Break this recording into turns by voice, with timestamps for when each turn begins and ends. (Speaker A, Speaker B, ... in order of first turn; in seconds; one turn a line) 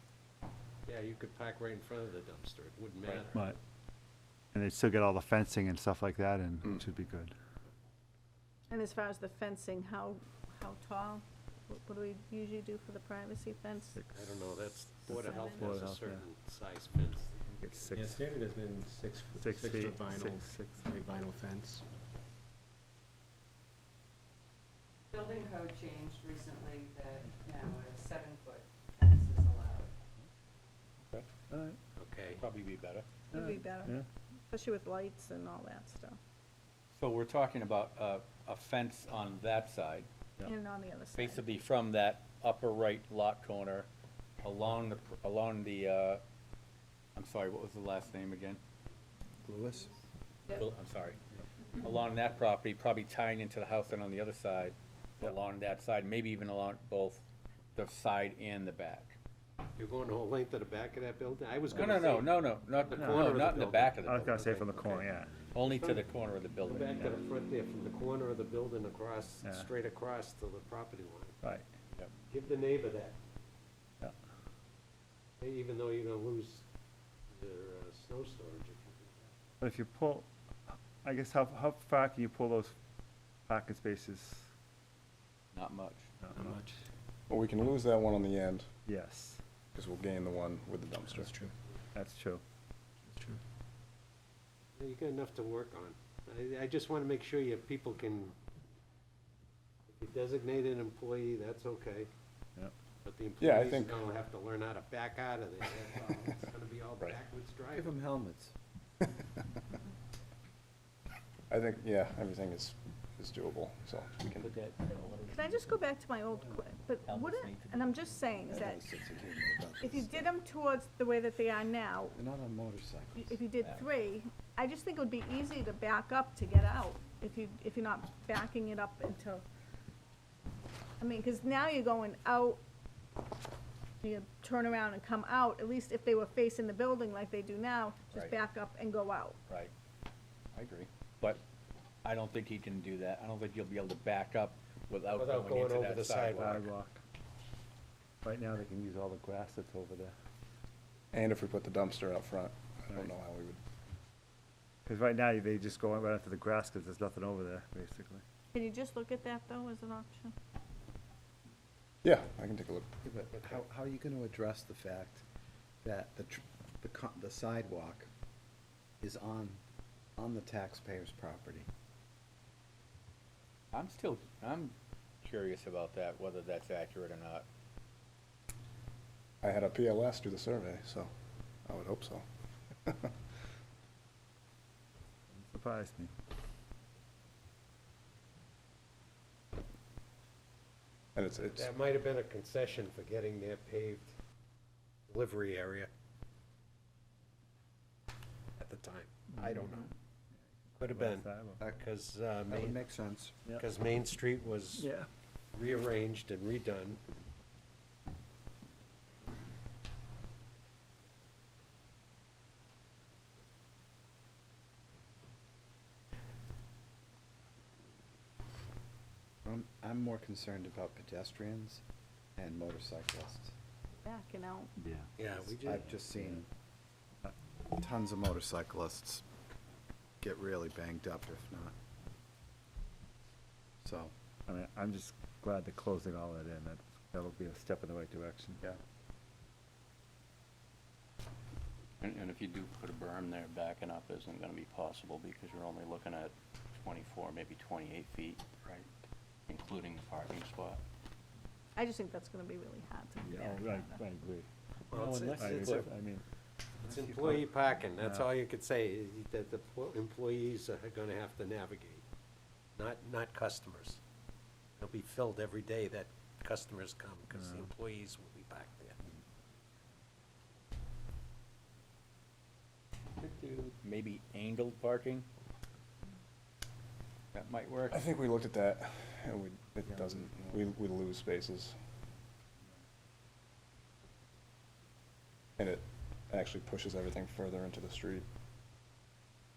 Speaker A: 0.9-3.5
Speaker B: 4.5-7.3
Speaker C: 8.7-14.0
Speaker B: 13.9-14.4
Speaker A: 14.1-17.5
Speaker B: 15.1-16.2
Speaker C: 15.2-15.6
Speaker B: 17.6-18.2
Speaker D: 18.0-21.8
Speaker B: 19.3-20.8
Speaker E: 25.1-29.9
Speaker B: 31.5-31.8
Speaker A: 32.0-32.4
Speaker F: 32.4-33.1
Speaker C: 33.3-34.0
Speaker B: 33.3-34.1
Speaker C: 34.5-36.2
Speaker F: 36.9-40.1
Speaker C: 40.4-41.5
Speaker F: 41.2-43.9
Speaker F: 44.4-46.2
Speaker F: 47.1-48.6
Speaker G: 49.5-49.9
Speaker F: 50.5-51.2
Speaker F: 51.8-59.2
Speaker A: 59.8-65.1
Speaker F: 61.7-64.2
Speaker B: 63.0-63.4
Speaker B: 64.0-65.4
Speaker F: 65.5-67.2
Speaker A: 65.7-66.0
Speaker A: 66.7-71.4
Speaker B: 69.4-69.7
Speaker B: 71.4-71.7
Speaker A: 72.3-73.2
Speaker A: 75.4-76.6
Speaker A: 77.3-79.2
Speaker B: 79.6-80.3
Speaker B: 81.0-82.8
Speaker B: 83.5-84.5
Speaker F: 85.5-86.1
Speaker B: 86.2-86.6
Speaker D: 86.4-86.6
Speaker H: 87.3-88.7
Speaker B: 88.9-89.4
Speaker H: 89.7-91.3
Speaker B: 92.0-92.4
Speaker D: 93.1-93.4
Speaker A: 94.8-98.3
Speaker A: 99.9-102.1
Speaker A: 103.0-107.9
Speaker H: 103.4-104.0
Speaker G: 107.7-108.5
Speaker H: 111.5-114.5
Speaker I: 114.4-115.7
Speaker C: 115.2-118.8
Speaker F: 117.1-118.1
Speaker G: 118.5-120.3
Speaker C: 119.8-122.2
Speaker G: 122.2-123.4
Speaker C: 123.2-129.4
Speaker C: 131.0-132.6
Speaker C: 134.0-139.4
Speaker F: 140.5-141.4
Speaker F: 142.0-146.7
Speaker A: 145.1-146.7
Speaker B: 146.4-147.0
Speaker B: 148.2-150.1
Speaker H: 151.1-153.6
Speaker B: 154.9-158.2
Speaker C: 158.5-160.3
Speaker H: 162.0-162.9
Speaker G: 163.0-165.2
Speaker G: 165.8-168.1
Speaker G: 169.0-169.6
Speaker G: 170.2-171.7
Speaker F: 173.7-177.5
Speaker H: 179.4-181.1
Speaker H: 181.7-182.3
Speaker H: 182.8-183.2
Speaker B: 185.4-186.1
Speaker H: 191.2-191.6
Speaker A: 191.4-194.1
Speaker A: 195.1-195.9
Speaker A: 198.6-199.9
Speaker B: 199.3-199.8
Speaker A: 200.8-202.8
Speaker B: 200.8-201.6
Speaker G: 202.5-203.3
Speaker A: 203.5-204.9
Speaker B: 204.8-205.1
Speaker A: 205.5-207.0
Speaker G: 219.4-221.8
Speaker G: 222.4-223.5
Speaker C: 224.1-224.7
Speaker B: 224.8-225.1
Speaker A: 225.2-225.8
Speaker G: 225.5-226.5
Speaker B: 225.7-226.4
Speaker G: 227.7-229.2
Speaker G: 230.2-231.7
Speaker G: 233.8-234.1
Speaker B: 234.5-238.8
Speaker I: 242.0-248.9
Speaker I: 249.5-250.8
Speaker C: 251.8-254.0
Speaker B: 253.2-254.5
Speaker A: 254.9-255.9
Speaker B: 255.0-256.2
Speaker A: 256.8-262.0
Speaker B: 258.0-258.2
Speaker A: 262.8-264.0
Speaker A: 264.8-269.0
Speaker F: 273.2-275.3
Speaker F: 277.3-278.1
Speaker H: 277.9-281.8
Speaker H: 285.6-288.3